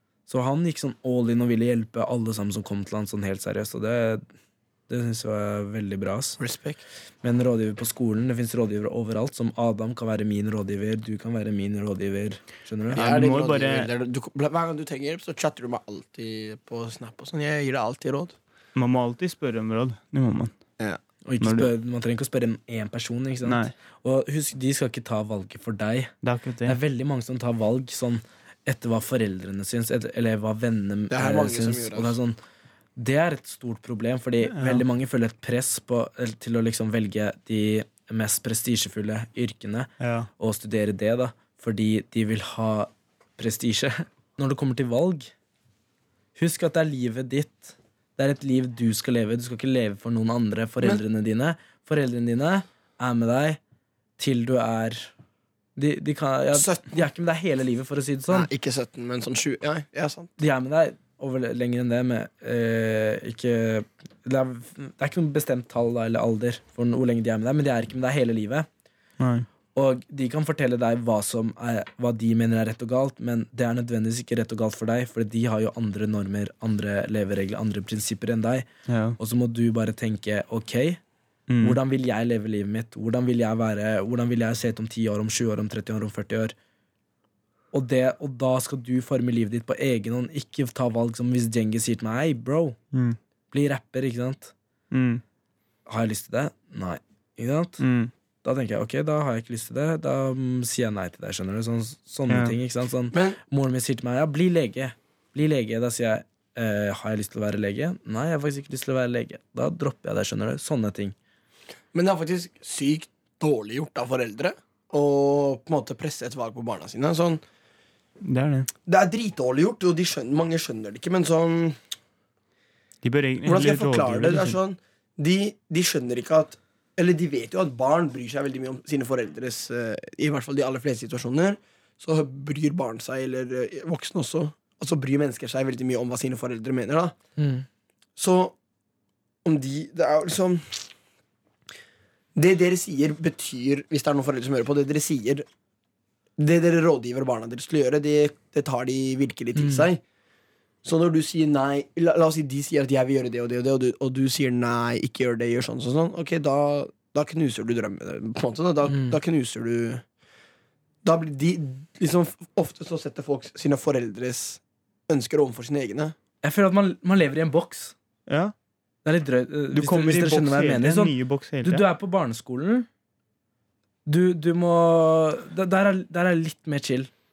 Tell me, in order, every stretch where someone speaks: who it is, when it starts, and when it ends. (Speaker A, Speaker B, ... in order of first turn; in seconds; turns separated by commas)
Speaker A: 0.3-4.2, Speaker A: 4.9-6.4, Speaker B: 6.4-6.8, Speaker A: 7.2-13.0, Speaker C: 12.9-13.9, Speaker B: 12.9-18.3, Speaker C: 18.7-20.5, Speaker A: 21.2-26.1, Speaker C: 21.4-21.7, Speaker C: 23.4-23.7, Speaker C: 26.2-26.8, Speaker A: 26.6-32.4, Speaker B: 31.1-32.1, Speaker A: 33.0-45.3, Speaker C: 34.4-34.8, Speaker C: 40.0-40.3, Speaker A: 46.3-53.6, Speaker A: 54.2-55.1, Speaker A: 55.8-58.5, Speaker B: 56.5-56.9, Speaker B: 58.3-60.4, Speaker A: 60.4-68.7, Speaker C: 69.2-69.5, Speaker A: 69.7-78.7, Speaker C: 78.9-79.2, Speaker A: 79.2-81.0, Speaker C: 81.5-81.8, Speaker A: 81.6-86.5, Speaker A: 87.7-92.8, Speaker A: 93.5-94.5, Speaker C: 94.9-95.2, Speaker A: 95.9-97.8, Speaker C: 97.8-98.1, Speaker A: 98.4-111.1, Speaker C: 102.3-102.5, Speaker B: 103.1-103.4, Speaker B: 111.9-117.4, Speaker C: 118.2-118.7, Speaker B: 118.8-121.8, Speaker C: 123.0-124.6, Speaker B: 123.4-137.2, Speaker A: 137.4-137.6, Speaker B: 138.2-138.6, Speaker B: 139.4-140.9, Speaker B: 142.3-145.4, Speaker B: 146.4-150.0, Speaker A: 149.6-149.9, Speaker B: 150.8-160.0, Speaker A: 158.9-159.2, Speaker B: 161.0-166.1, Speaker A: 166.4-167.9, Speaker C: 168.3-168.5, Speaker A: 169.0-172.9, Speaker C: 169.7-171.8, Speaker A: 174.1-177.1